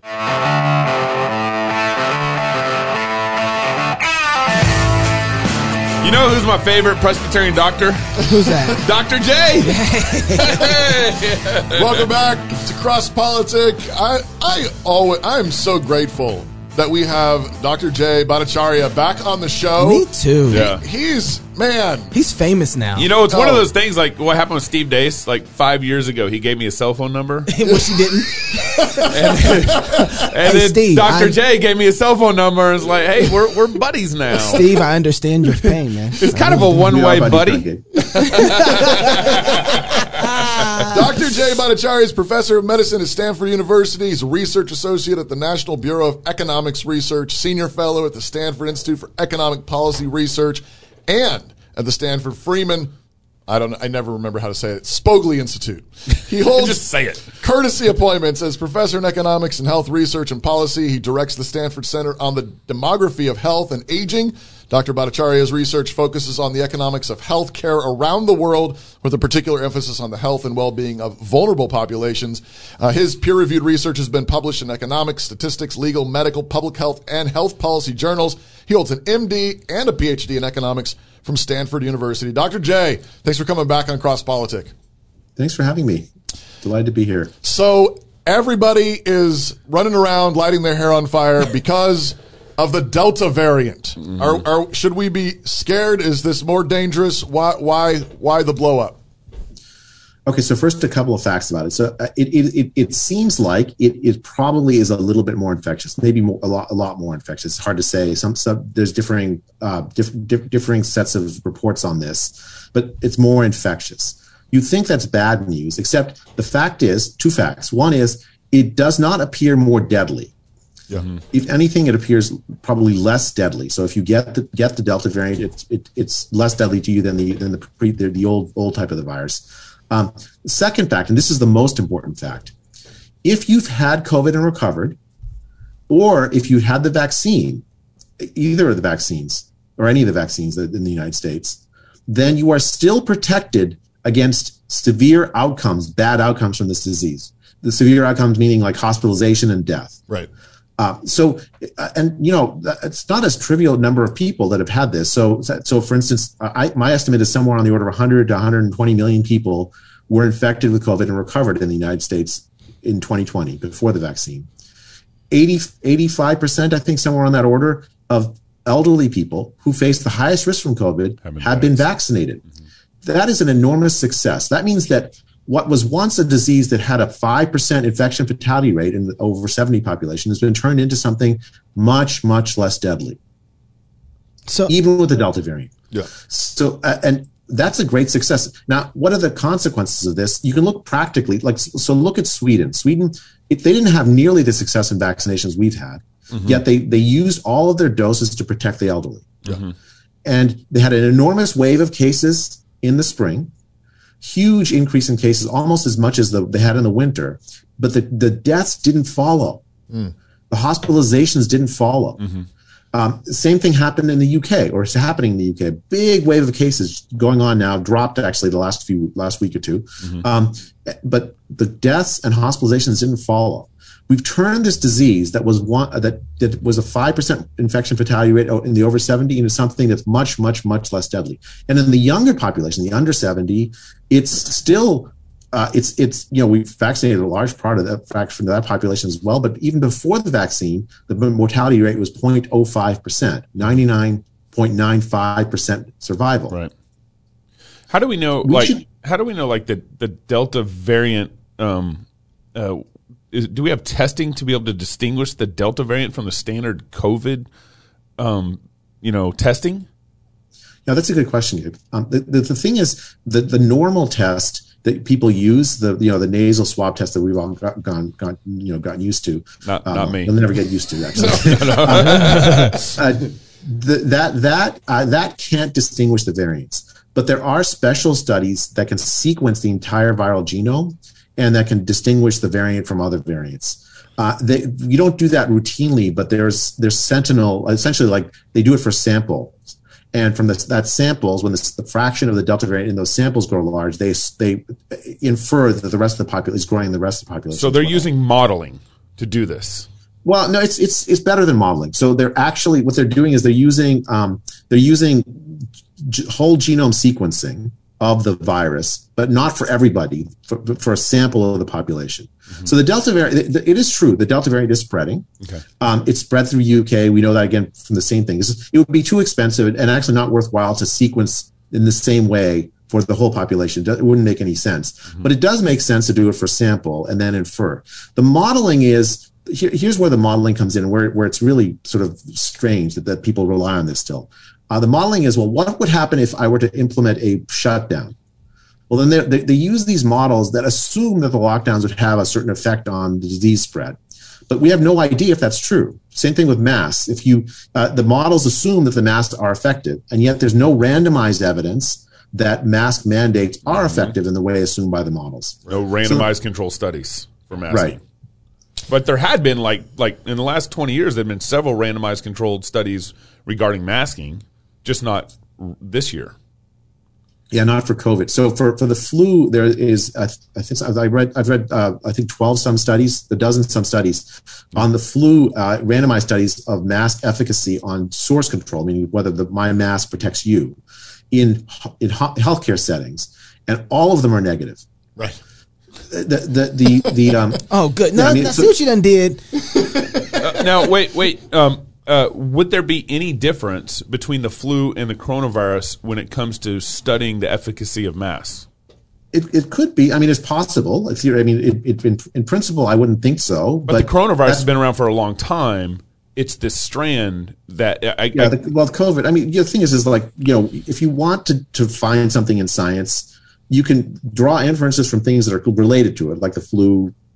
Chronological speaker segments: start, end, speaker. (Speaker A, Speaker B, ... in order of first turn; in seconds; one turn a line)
Speaker A: 6.0-12.1
Speaker B: 8.2-8.8
Speaker B: 9.6-10.7
Speaker C: 11.7-22.1
Speaker B: 19.8-20.7
Speaker A: 20.5-20.8
Speaker B: 22.1-23.1
Speaker A: 22.9-27.5
Speaker C: 23.3-23.7
Speaker B: 27.5-31.4
Speaker C: 27.6-29.8
Speaker A: 29.1-34.6
Speaker B: 34.3-36.9
Speaker A: 36.2-37.6
Speaker D: 36.3-37.9
Speaker B: 38.1-41.0
Speaker A: 38.2-39.6
Speaker C: 40.9-52.9
Speaker C: 53.5-84.7
Speaker A: 56.5-57.3
Speaker D: 85.4-86.1
Speaker D: 86.6-87.3
Speaker C: 87.4-99.0
Speaker D: 100.2-120.3
Speaker D: 121.3-132.5
Speaker D: 133.2-135.0
Speaker D: 135.9-137.6
Speaker D: 138.2-150.0
Speaker D: 150.8-164.5
Speaker D: 165.3-172.4
Speaker A: 171.2-171.8
Speaker D: 173.0-183.2
Speaker B: 184.5-184.7
Speaker D: 184.7-199.4
Speaker A: 196.3-196.6
Speaker A: 199.4-199.7
Speaker D: 200.2-203.5
Speaker D: 204.2-209.7
Speaker D: 210.5-212.2
Speaker D: 212.9-246.6
Speaker A: 247.9-252.0
Speaker D: 248.4-248.8
Speaker A: 252.5-257.5
Speaker A: 258.2-259.9
Speaker D: 260.9-289.6
Speaker A: 269.6-270.3
Speaker A: 271.1-272.9
Speaker D: 290.1-298.1
Speaker A: 297.5-299.9
Speaker D: 300.2-315.2
Speaker D: 315.8-338.1
Speaker D: 338.9-344.0
Speaker D: 344.5-356.3
Speaker A: 353.7-354.1
Speaker A: 355.7-358.0
Speaker D: 357.7-358.0
Speaker A: 358.9-366.3
Speaker D: 367.5-380.8
Speaker D: 381.3-384.8
Speaker D: 386.1-388.7
Speaker B: 387.7-389.4
Speaker A: 390.4-398.6
Speaker D: 399.3-404.7
Speaker A: 403.9-408.6
Speaker D: 408.3-417.1